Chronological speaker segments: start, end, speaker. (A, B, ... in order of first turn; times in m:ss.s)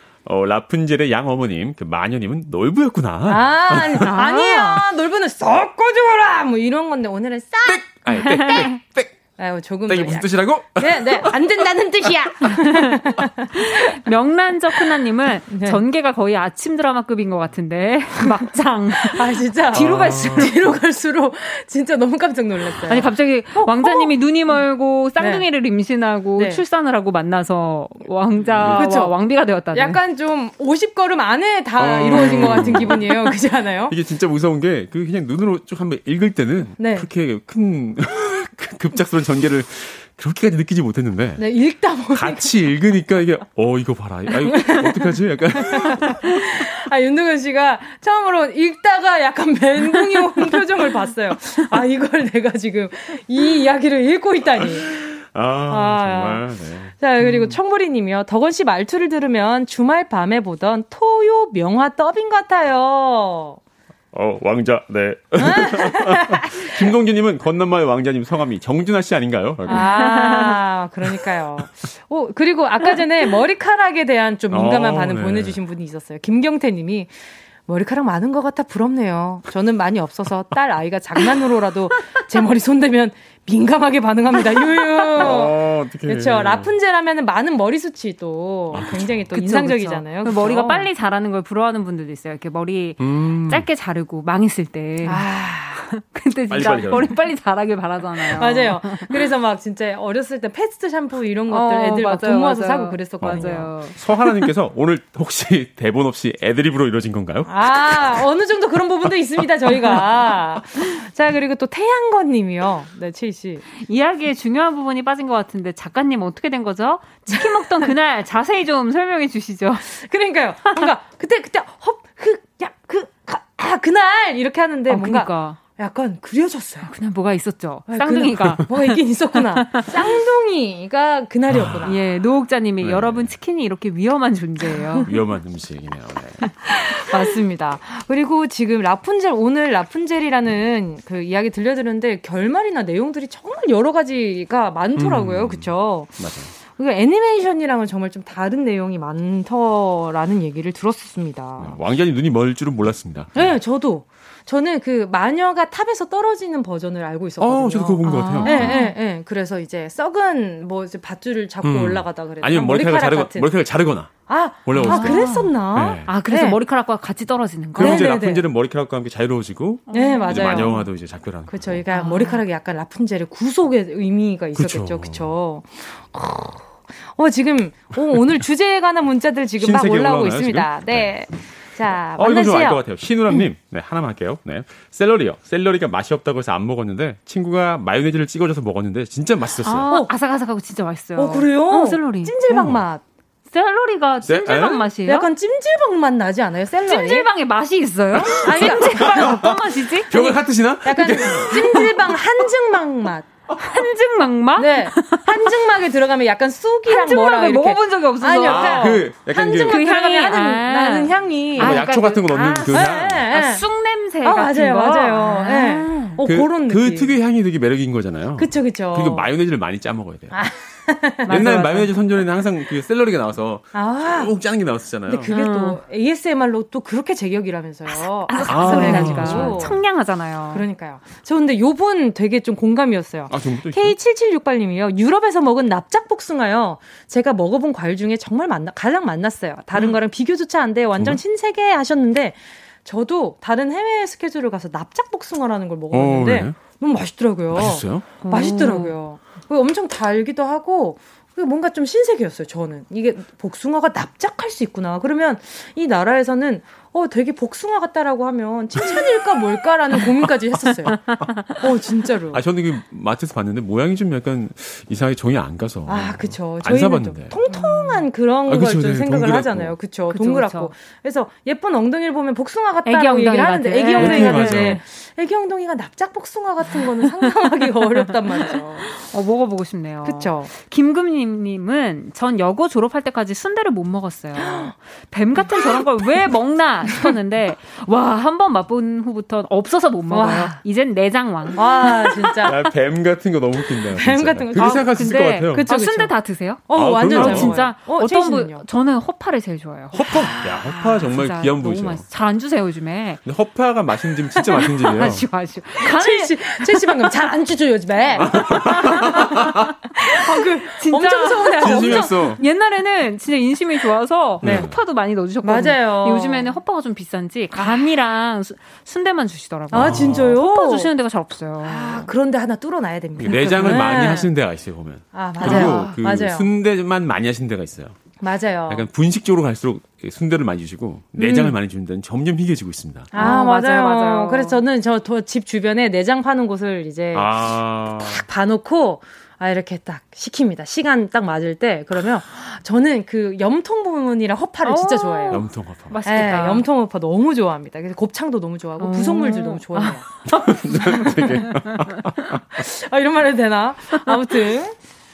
0:00.2-0:04.1 A
0:03.3-0:08.7 B
0:04.1-0:04.8 C
0:07.6-0:09.1 A
0:08.2-0:08.8 C
0:09.4-0:13.9 B
0:09.9-0:11.6 A
0:12.6-0:20.5 C
0:15.5-0:15.8 B
0:19.0-0:24.6 B
0:19.7-0:20.7 A
0:22.8-0:30.0 C
0:25.2-0:25.5 B
0:26.3-0:26.6 B
0:28.4-0:28.9 A
0:28.7-0:29.1 B
0:29.7-0:33.9 B
0:31.8-0:33.2 A
0:33.9-0:41.5 A
0:36.8-0:37.1 B
0:41.4-0:42.5 B
0:42.1-0:46.3 A
0:44.5-0:55.0 B
0:54.6-0:57.6 A
0:55.7-0:56.4 B
0:57.0-1:03.6 B
1:04.1-1:09.8 A
1:05.4-1:06.7 B
1:09.7-1:17.1 B
1:09.7-1:10.5 C
1:14.5-1:15.6 A
1:17.6-1:30.9 B
1:25.1-1:26.7 A
1:28.7-1:29.3 A
1:29.3-1:35.3 C
1:33.0-1:33.7 A
1:35.0-1:35.9 B
1:35.8-1:39.3 C
1:36.5-1:37.2 A
1:36.6-1:37.1 B
1:38.3-1:43.8 B
1:41.5-1:44.5 C
1:43.2-1:48.3 A
1:47.5-1:53.6 B
1:49.4-1:50.0 A
1:53.8-1:59.9 C
1:57.3-1:57.9 B
1:59.8-2:06.9 B
2:04.9-2:05.6 C
2:06.8-2:09.9 C
2:07.9-2:12.0 B
2:11.5-2:11.9 A
2:11.8-2:15.1 C
2:12.8-2:13.3 A
2:14.7-2:15.1 B
2:15.0-2:16.4 A
2:16.7-2:31.8 B
2:25.0-2:26.5 A
2:31.6-2:33.6 A
2:33.3-2:43.5 B
2:37.4-2:38.7 A
2:38.0-2:39.0 C
2:41.6-2:46.0 A
2:44.3-2:46.6 B
2:44.8-2:48.1 C
2:47.7-2:51.9 A
2:47.8-2:48.4 B
2:49.9-2:50.8 C
2:49.9-2:50.9 B
2:51.5-3:03.4 B
2:51.9-2:52.4 C
2:54.5-2:55.3 A
2:59.6-3:01.2 A
3:02.1-3:09.9 A
3:09.6-3:12.4 C
3:11.1-3:13.0 B
3:12.5-3:12.8 A
3:13.5-3:15.3 C
3:14.2-3:14.9 A
3:15.0-3:17.3 B
3:16.8-3:20.3 C
3:18.3-3:22.2 A
3:18.4-3:19.4 B
3:20.8-3:23.2 B
3:23.6-3:25.6 C
3:24.6-3:33.6 B
3:26.9-3:36.2 C
3:28.4-3:29.8 A
3:31.6-3:33.3 A
3:34.2-3:37.1 B
3:36.2-3:40.4 A
3:38.4-3:39.3 B
3:40.3-3:41.8 B
3:41.3-3:45.3 A
3:41.3-3:41.9 C
3:43.7-3:44.3 B
3:45.1-3:49.9 B
3:45.3-3:45.8 C
3:47.9-3:50.6 C
3:48.5-3:49.7 A
3:50.5-4:21.0 B
3:53.3-3:54.0 A
4:01.0-4:01.2 A
4:05.9-4:06.6 A
4:07.5-4:08.2 A
4:08.1-4:08.9 C
4:18.8-4:19.0 A
4:20.9-4:21.4 C
4:21.6-4:22.4 B
4:22.3-4:27.4 A
4:25.9-4:38.9 B
4:27.5-4:28.0 C
4:28.4-4:29.8 A
4:30.1-4:30.7 C
4:32.8-4:34.7 C
4:34.0-4:34.8 A
4:36.7-4:52.5 C
4:40.0-4:40.5 B
4:44.4-4:44.7 B
4:45.4-4:45.8 B
4:50.1-4:50.6 B
4:51.6-4:52.6 B
4:52.4-4:55.7 A
4:53.9-4:58.6 B
4:54.6-5:03.2 C
4:56.7-4:57.7 A
4:59.9-5:02.0 A
5:00.0-5:01.0 B
5:03.2-5:05.2 A
5:04.5-5:07.2 C
5:05.8-5:09.5 B
5:08.2-5:09.7 A
5:10.0-5:22.1 C
5:10.0-5:12.3 B
5:11.6-5:12.4 A
5:14.4-5:14.8 A
5:14.4-5:14.7 B
5:15.4-5:16.6 B
5:17.5-5:17.9 B
5:19.7-5:20.9 B
5:19.8-5:20.3 A
5:21.6-5:24.3 B
5:23.2-5:28.0 A
5:25.1-5:26.5 B
5:25.4-5:26.0 C
5:28.2-5:28.9 B
5:28.7-5:33.1 A
5:31.2-5:31.6 B
5:33.1-5:34.6 C
5:33.1-5:45.5 B
5:37.1-5:38.2 A
5:44.6-5:46.6 C
5:45.3-5:45.9 A
5:46.0-5:51.5 B
5:48.8-5:51.7 C
5:50.3-5:52.6 A
5:52.6-5:54.8 B